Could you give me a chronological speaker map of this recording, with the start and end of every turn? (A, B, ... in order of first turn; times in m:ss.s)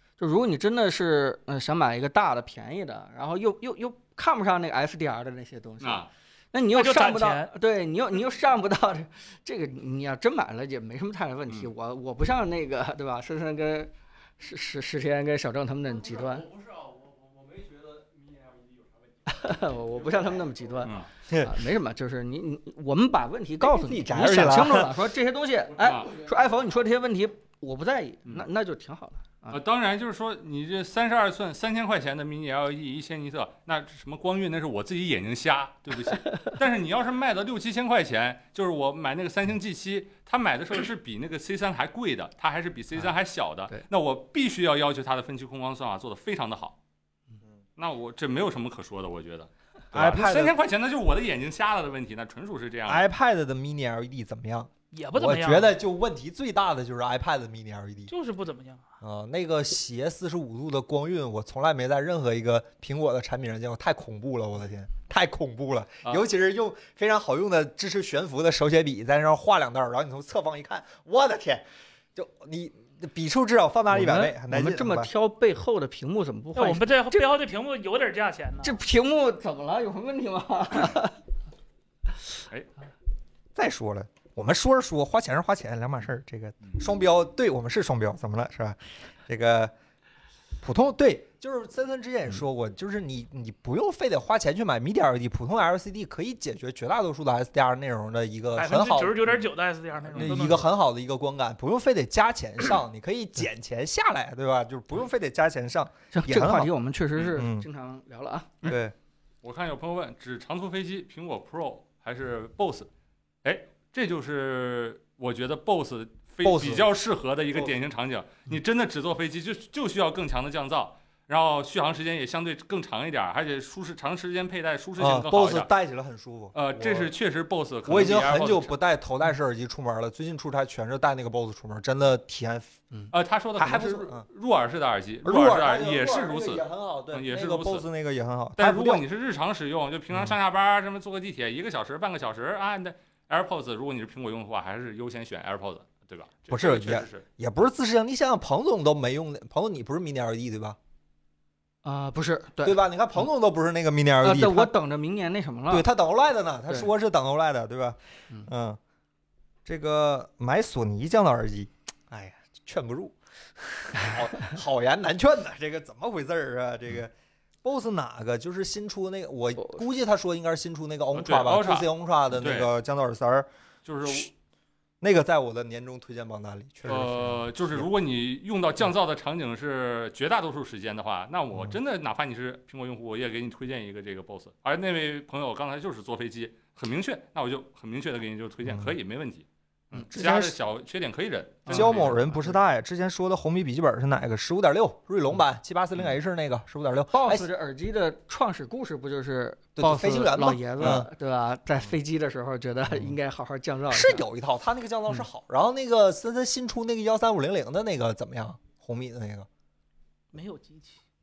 0:00.2-0:16.5 A
0:05.8-0:06.1 B
0:06.7-0:07.5 C
0:16.2-0:19.3 D
0:19.3-0:29.6 A
0:20.8-0:21.1 B
0:21.3-0:21.6 E
0:23.6-0:25.1 E
0:25.8-0:26.1 B
0:29.5-0:46.8 B
0:47.8-0:53.0 B
0:49.9-0:50.6 E
0:52.9-0:58.1 E
0:54.9-0:55.8 C
0:58.1-0:58.9 C
0:59.0-1:15.1 E
1:13.9-1:17.3 A
1:16.6-1:18.8 C
1:18.6-1:21.2 A
1:23.6-1:29.7 E
1:30.6-1:39.4 E
1:38.6-1:40.7 C
1:40.1-1:46.7 E
1:46.1-1:48.7 A
1:47.3-1:47.7 E
1:48.6-1:49.0 E
1:49.4-1:52.9 B
1:53.4-2:05.7 B
1:56.4-1:56.9 E
2:05.0-2:07.1 E
2:06.5-2:08.8 B
2:07.9-2:12.8 E
2:13.1-2:17.9 B
2:13.6-2:14.2 E
2:15.2-2:19.0 E
2:18.6-2:27.2 B
2:26.5-2:30.8 E
2:31.8-2:32.8 A
2:32.6-2:34.7 E
2:34.2-2:35.9 A
2:35.7-2:38.8 E
2:39.7-2:47.1 E
2:47.6-2:53.5 E
2:51.1-2:52.7 B
2:53.9-2:54.3 B
2:55.0-2:57.9 E
2:56.9-3:12.5 B
3:10.1-3:10.6 E
3:11.7-3:12.2 A
3:11.7-3:17.5 E
3:17.1-3:24.2 A
3:19.8-3:21.1 E
3:23.9-3:29.5 E
3:30.3-3:31.0 C